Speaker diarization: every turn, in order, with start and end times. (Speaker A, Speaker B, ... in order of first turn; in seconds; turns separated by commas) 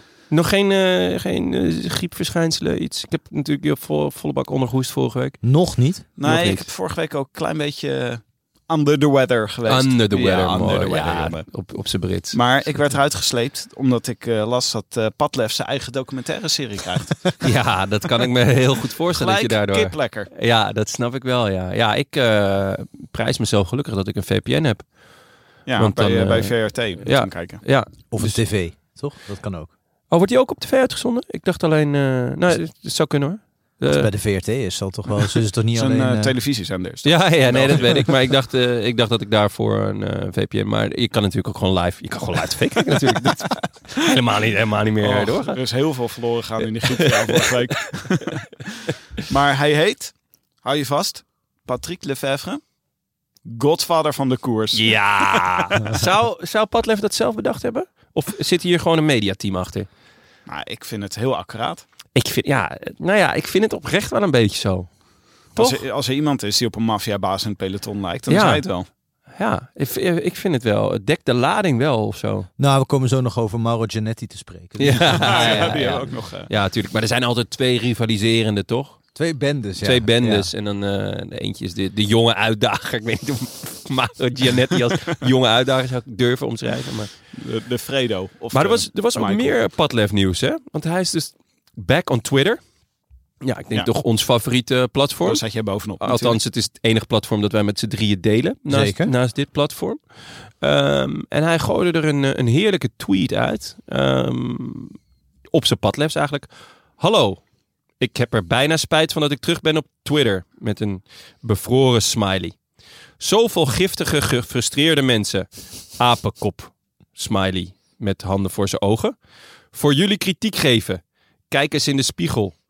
Speaker A: 0.3-5.4, Speaker B: 5.4-6.0, Speaker C: 6.2-11.4, Speaker A: 6.2-6.7, Speaker A: 9.7-12.7, Speaker C: 12.3-17.5, Speaker A: 17.4-24.9, Speaker C: 19.1-20.3, Speaker C: 25.6-27.6, Speaker A: 25.8-28.4, Speaker B: 28.1-29.7, Speaker A: 30.1-34.1, Speaker B: 33.9-36.3, Speaker C: 35.7-38.1, Speaker A: 37.0-45.6, Speaker C: 45.0-48.5, Speaker A: 46.8-47.6, Speaker C: 49.2-52.6, Speaker C: 53.4-56.0, Speaker A: 54.7-59.9, Speaker C: 60.5-61.8, Speaker A: 62.1-64.9, Speaker A: 65.5-65.8, Speaker C: 65.5-68.9, Speaker A: 68.3-68.6, Speaker A: 69.3-72.5, Speaker B: 72.6-76.0, Speaker A: 74.8-79.0, Speaker C: 75.1-76.5, Speaker B: 79.2-80.5, Speaker A: 79.8-87.1, Speaker C: 87.3-89.5, Speaker A: 88.5-92.6, Speaker A: 93.4-95.4, Speaker C: 95.2-96.4, Speaker A: 96.0-100.0, Speaker B: 98.7-99.1, Speaker A: 100.6-105.0, Speaker A: 105.5-106.5, Speaker A: 107.0-107.4, Speaker A: 108.0-112.5, Speaker A: 113.2-119.1, Speaker A: 119.7-122.5